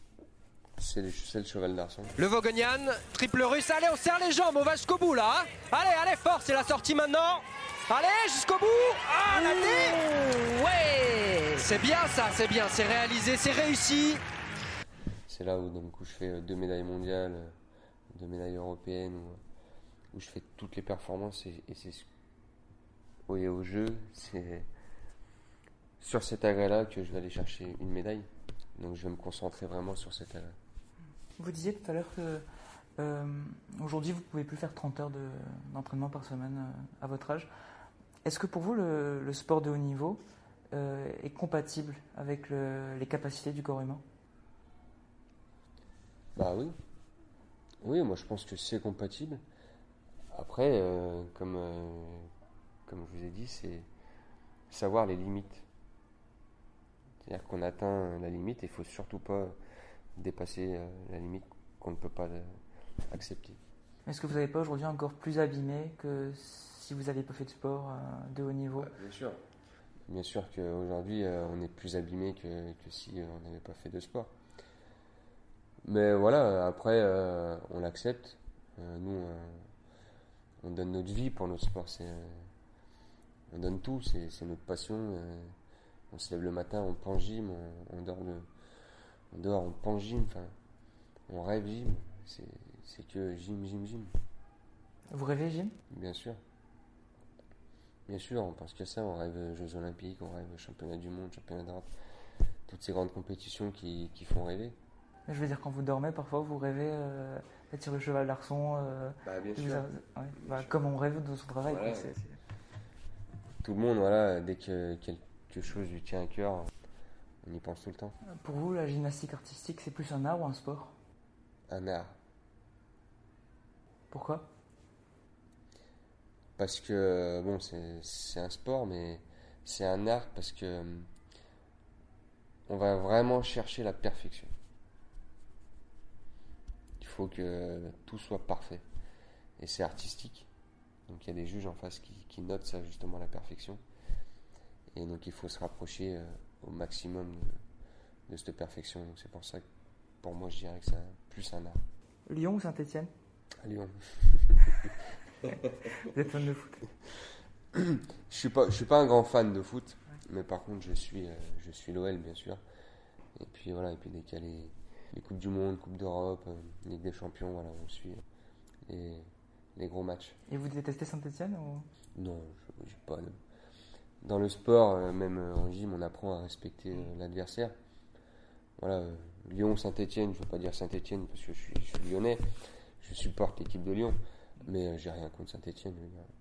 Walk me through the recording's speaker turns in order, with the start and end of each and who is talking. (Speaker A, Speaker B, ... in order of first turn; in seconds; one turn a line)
Speaker A: 0.8-2.1
Speaker B: 2.2-14.2
Speaker A: 15.3-17.6
Speaker A: 18.1-19.4
Speaker A: 20.1-22.1
Speaker A: 23.3-24.7
Speaker A: 26.0-30.6
Speaker C: 31.4-32.5
Speaker C: 33.0-37.5
Speaker C: 38.2-40.2
Speaker C: 40.7-44.0
Speaker A: 46.3-46.8
Speaker A: 47.8-49.4
Speaker A: 50.3-52.3
Speaker A: 52.9-53.9
Speaker A: 54.7-55.6
Speaker A: 57.2-59.6
Speaker A: 60.1-63.6
Speaker C: 64.1-68.9
Speaker A: 68.8-69.4
Speaker A: 70.1-74.3
Speaker A: 75.8-79.7
Speaker A: 80.6-82.5
Speaker A: 83.5-85.5
Speaker A: 86.1-88.5
Speaker A: 89.3-90.5
Speaker A: 91.3-94.2
Speaker C: 95.1-95.8
Speaker A: 95.9-96.4
Speaker A: 98.1-101.9
Speaker A: 102.7-104.8
Speaker C: 105.3-112.4
Speaker A: 109.2-110.8
Speaker A: 111.7-112.1
Speaker A: 113.6-116.7
Speaker A: 117.4-118.2
Speaker C: 118.2-121.0
Speaker A: 121.7-122.2
Speaker C: 124.1-124.5
Speaker A: 126.6-131.1
Speaker A: 132.7-134.5
Speaker A: 137.0-138.8
Speaker A: 139.6-140.5
Speaker A: 141.1-143.8
Speaker A: 144.9-147.6
Speaker A: 148.3-149.6
Speaker A: 150.2-151.8
Speaker C: 152.3-153.1
Speaker A: 153.6-155.9
Speaker C: 155.5-156.9
Speaker A: 157.7-162.6
Speaker A: 163.4-168.2
Speaker A: 168.9-170.4
Speaker C: 170.5-171.9
Speaker A: 172.1-173.4
Speaker A: 174.2-177.7
Speaker A: 178.8-182.5
Speaker A: 183.0-186.3